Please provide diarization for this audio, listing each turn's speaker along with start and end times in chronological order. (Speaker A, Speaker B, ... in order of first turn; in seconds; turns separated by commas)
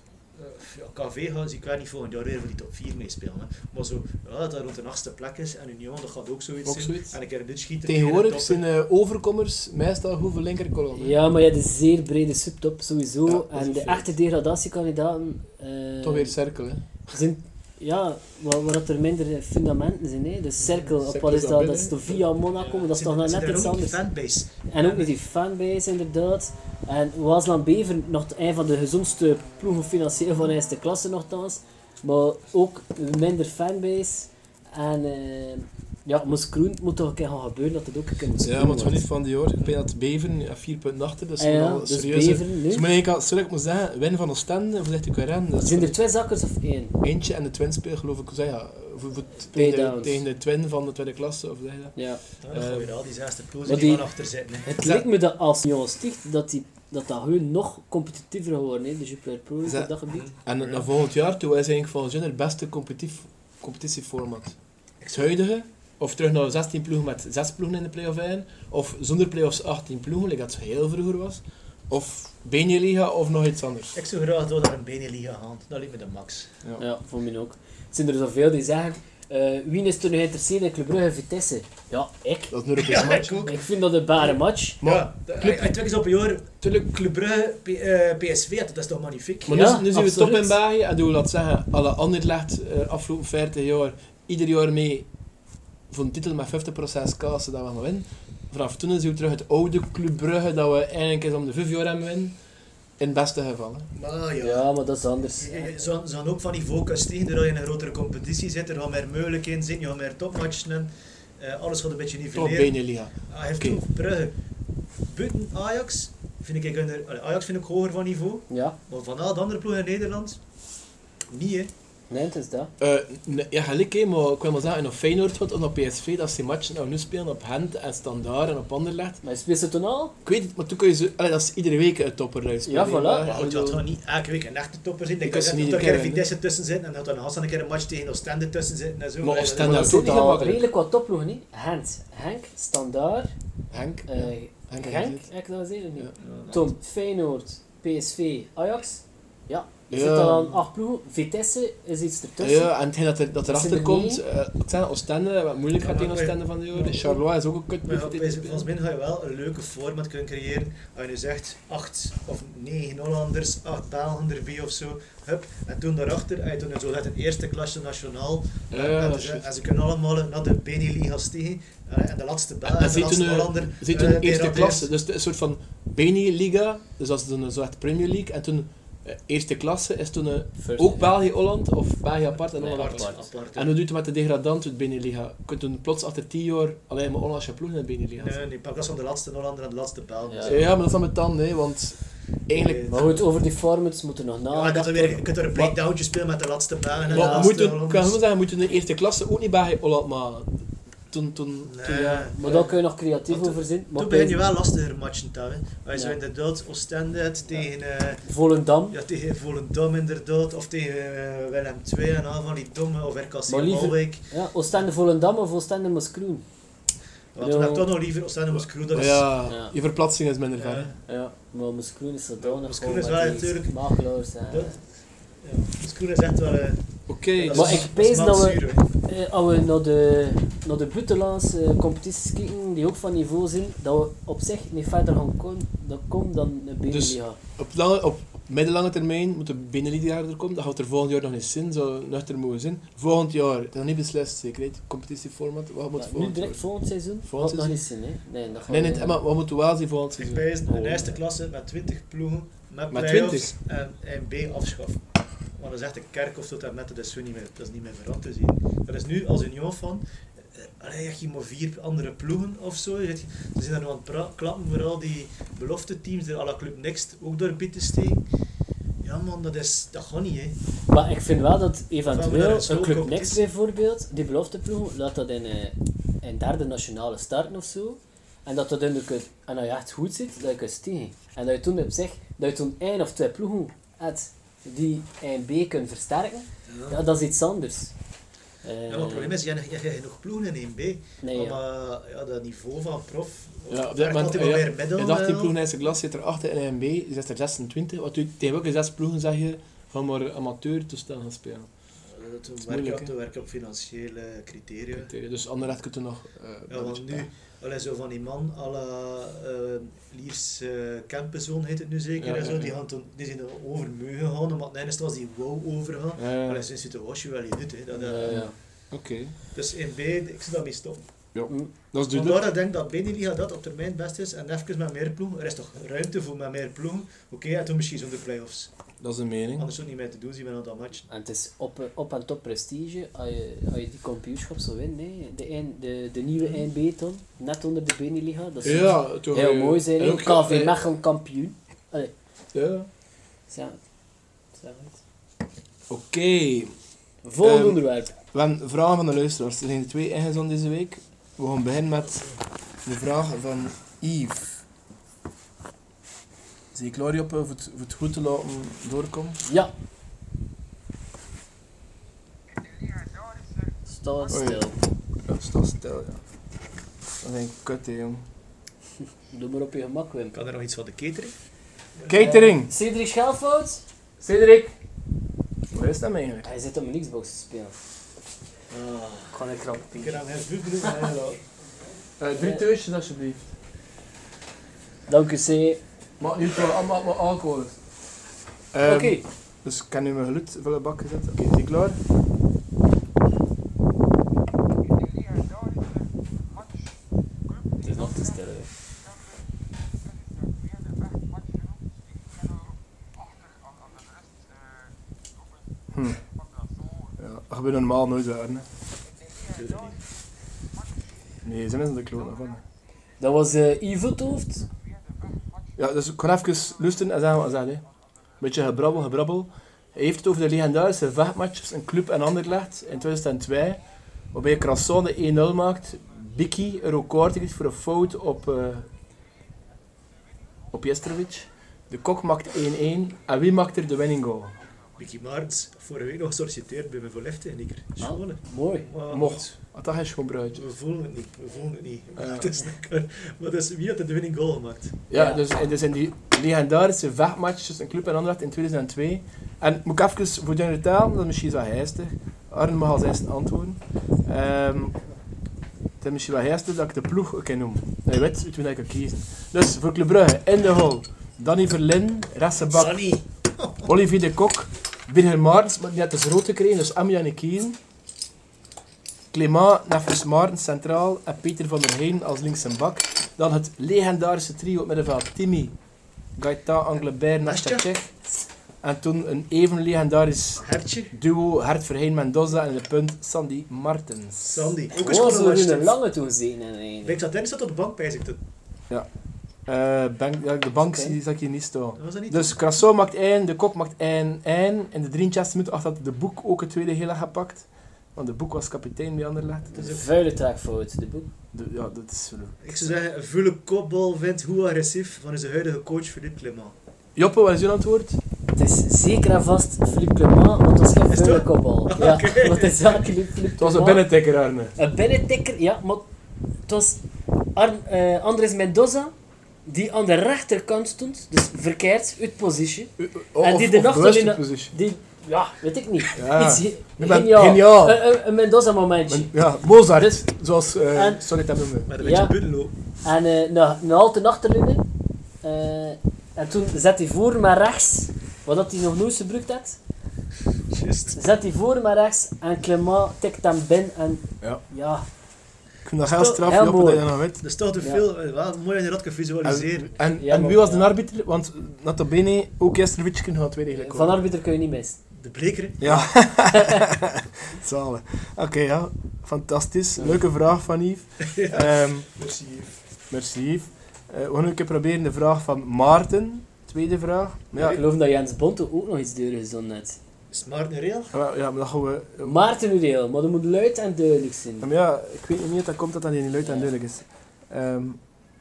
Speaker A: 0.4-8.6, Speaker B: 6.7-7.2, Speaker B: 7.9-11.2, Speaker C: 10.9-16.4, Speaker B: 13.3-14.1, Speaker B: 16.0-16.9, Speaker C: 17.1-24.0, Speaker B: 20.7-22.2, Speaker A: 22.6-25.1, Speaker C: 24.7-39.0, Speaker B: 38.4-46.0, Speaker C: 41.4-42.9, Speaker C: 45.6-47.0, Speaker B: 47.0-52.0, Speaker C: 49.5-50.2, Speaker C: 52.0-52.2, Speaker A: 52.4-54.7, Speaker B: 52.5-52.9, Speaker C: 53.7-54.1, Speaker C: 54.6-60.3, Speaker B: 54.8-55.1, Speaker B: 59.6-59.9, Speaker A: 60.1-60.9, Speaker B: 60.4-64.5, Speaker A: 65.0-65.4, Speaker B: 65.1-74.0, Speaker A: 74.0-76.5, Speaker C: 76.8-82.6, Speaker B: 82.5-83.5, Speaker A: 82.8-83.6, Speaker C: 83.4-84.8, Speaker B: 84.8-85.8, Speaker A: 84.8-89.6, Speaker B: 89.5-95.1, Speaker C: 89.5-90.5, Speaker B: 95.9-102.4, Speaker B: 103.0-103.9, Speaker A: 104.0-104.7, Speaker C: 104.4-105.8, Speaker A: 105.4-112.8, Speaker B: 112.3-113.8, Speaker A: 113.3-114.4, Speaker A: 115.1-120.4, Speaker C: 118.5-118.8, Speaker A: 121.3-121.7, Speaker C: 122.1-122.7, Speaker B: 122.8-129.2, Speaker C: 129.2-130.2, Speaker B: 130.2-133.8, Speaker C: 132.7-133.3, Speaker A: 133.2-140.1, Speaker B: 135.2-136.2, Speaker B: 139.2-140.6, Speaker C: 139.6-143.3, Speaker B: 143.7-145.2, Speaker C: 144.1-152.7, Speaker A: 146.2-146.7, Speaker B: 149.9-150.6, Speaker B: 152.4-158.7, Speaker C: 153.5-154.2, Speaker A: 155.8-157.2, Speaker A: 157.8-174.9, Speaker B: 168.7-169.5, Speaker B: 172.7-188.4, Speaker C: 180.6-181.1, Speaker C: 182.6-183.2, Speaker A: 182.7-183.8, Speaker A: 188.2-190.8, Speaker C: 190.3-190.6, Speaker B: 190.4-193.2, Speaker A: 192.5-193.2, Speaker C: 192.9-195.7, Speaker A: 194.5-198.2, Speaker B: 197.1-200.6, Speaker C: 197.1-197.5, Speaker B: 201.1-202.3, Speaker A: 201.7-202.7, Speaker C: 202.0-204.4, Speaker A: 203.3-208.3, Speaker C: 208.3-209.0, Speaker A: 208.9-214.3, Speaker C: 213.5-216.4, Speaker A: 217.3-219.4, Speaker C: 217.4-217.9, Speaker B: 218.9-220.9, Speaker C: 219.5-219.7, Speaker A: 220.6-221.0, Speaker C: 221.1-224.8, Speaker A: 222.4-223.8, Speaker A: 224.5-224.8, Speaker A: 225.4-228.9, Speaker B: 227.1-227.8, Speaker C: 227.5-237.4, Speaker B: 236.9-246.6, Speaker C: 246.0-249.2, Speaker B: 247.2-247.8, Speaker B: 248.7-251.2, Speaker A: 250.2-255.0, Speaker B: 252.9-253.5, Speaker A: 255.6-260.0, Speaker A: 260.6-268.2, Speaker A: 269.0-270.6, Speaker C: 270.9-287.9, Speaker A: 272.1-273.4, Speaker A: 286.7-287.0, Speaker C: 288.6-289.4, Speaker A: 288.9-295.6, Speaker C: 291.2-291.6, Speaker B: 293.7-301.7, Speaker A: 302.1-305.1, Speaker B: 302.7-303.1, Speaker B: 304.9-307.3, Speaker A: 306.7-318.5, Speaker B: 312.2-312.8, Speaker B: 316.2-316.7, Speaker C: 317.9-318.6, Speaker B: 318.3-319.4, Speaker A: 319.5-321.1, Speaker B: 321.3-322.4, Speaker A: 322.1-328.7, Speaker B: 329.0-329.7, Speaker A: 329.6-331.1, Speaker C: 331.1-342.1, Speaker B: 338.6-340.8, Speaker B: 342.5-342.9, Speaker C: 343.5-343.8, Speaker C: 344.6-345.0, Speaker B: 345.9-346.7, Speaker C: 347.2-348.1, Speaker B: 347.4-352.3, Speaker B: 352.9-354.6, Speaker B: 356.7-359.4, Speaker C: 359.4-359.7, Speaker C: 363.9-364.8, Speaker B: 364.3-364.7, Speaker B: 365.2-366.2, Speaker B: 367.2-368.2, Speaker C: 369.3-370.4, Speaker A: 370.3-371.3, Speaker B: 372.1-372.7, Speaker C: 372.1-373.8, Speaker B: 374.2-374.7, Speaker B: 375.7-376.5, Speaker C: 376.4-377.8, Speaker A: 378.7-379.4, Speaker C: 379.3-380.2, Speaker A: 379.9-381.4, Speaker B: 382.2-383.5, Speaker C: 382.4-382.6, Speaker C: 385.1-385.8, Speaker B: 386.2-387.8, Speaker B: 388.7-392.0, Speaker C: 388.9-389.2, Speaker C: 397.8-398.7, Speaker B: 405.9-406.2, Speaker B: 407.2-408.7, Speaker A: 409.5-410.0, Speaker B: 411.4-412.6, Speaker C: 413.2-414.7, Speaker B: 415.8-417.8, Speaker B: 418.4-423.8, Speaker B: 424.3-428.9, Speaker B: 430.7-434.6, Speaker A: 435.0-439.5, Speaker C: 438.0-438.9, Speaker B: 439.1-440.6, Speaker A: 440.6-445.0, Speaker B: 442.2-442.5, Speaker B: 445.1-455.0, Speaker C: 445.1-445.4, Speaker B: 456.0-463.0, Speaker A: 462.7-463.9, Speaker B: 463.9-467.8, Speaker B: 469.3-475.8, Speaker B: 476.4-478.1, Speaker A: 477.4-477.9, Speaker B: 478.8-484.8, Speaker A: 480.6-481.1, Speaker A: 484.4-486.0, Speaker C: 484.9-487.2, Speaker A: 487.0-488.4, Speaker B: 489.7-500.0, Speaker C: 490.8-491.1, Speaker A: 492.0-492.6, Speaker C: 499.7-501.3, Speaker A: 499.8-500.1, Speaker B: 501.5-502.9, Speaker A: 502.6-506.8, Speaker B: 507.2-508.2, Speaker C: 508.6-514.1, Speaker A: 511.1-513.0, Speaker B: 513.6-514.8, Speaker C: 514.8-516.1, Speaker C: 516.7-517.0, Speaker C: 517.5-519.1, Speaker C: 519.7-529.4, Speaker B: 523.0-524.7, Speaker B: 526.1-528.0, Speaker B: 529.1-531.9, Speaker C: 529.9-530.2, Speaker C: 530.9-531.2, Speaker A: 531.9-532.7, Speaker C: 532.0-532.4, Speaker C: 533.0-534.9, Speaker C: 535.4-539.8, Speaker A: 540.7-541.2, Speaker C: 541.1-545.1, Speaker B: 545.9-547.4, Speaker A: 546.1-546.5, Speaker C: 546.4-547.1, Speaker A: 547.4-550.0, Speaker B: 549.4-554.2, Speaker C: 550.1-550.9, Speaker C: 553.7-555.0, Speaker A: 555.2-556.1, Speaker B: 555.8-562.1, Speaker C: 556.5-556.9, Speaker C: 560.0-560.2, Speaker A: 561.2-562.8, Speaker B: 563.1-567.8, Speaker C: 567.6-570.0, Speaker A: 570.3-571.1, Speaker B: 571.1-572.4, Speaker C: 572.2-574.7, Speaker B: 574.6-578.0, Speaker C: 576.4-576.7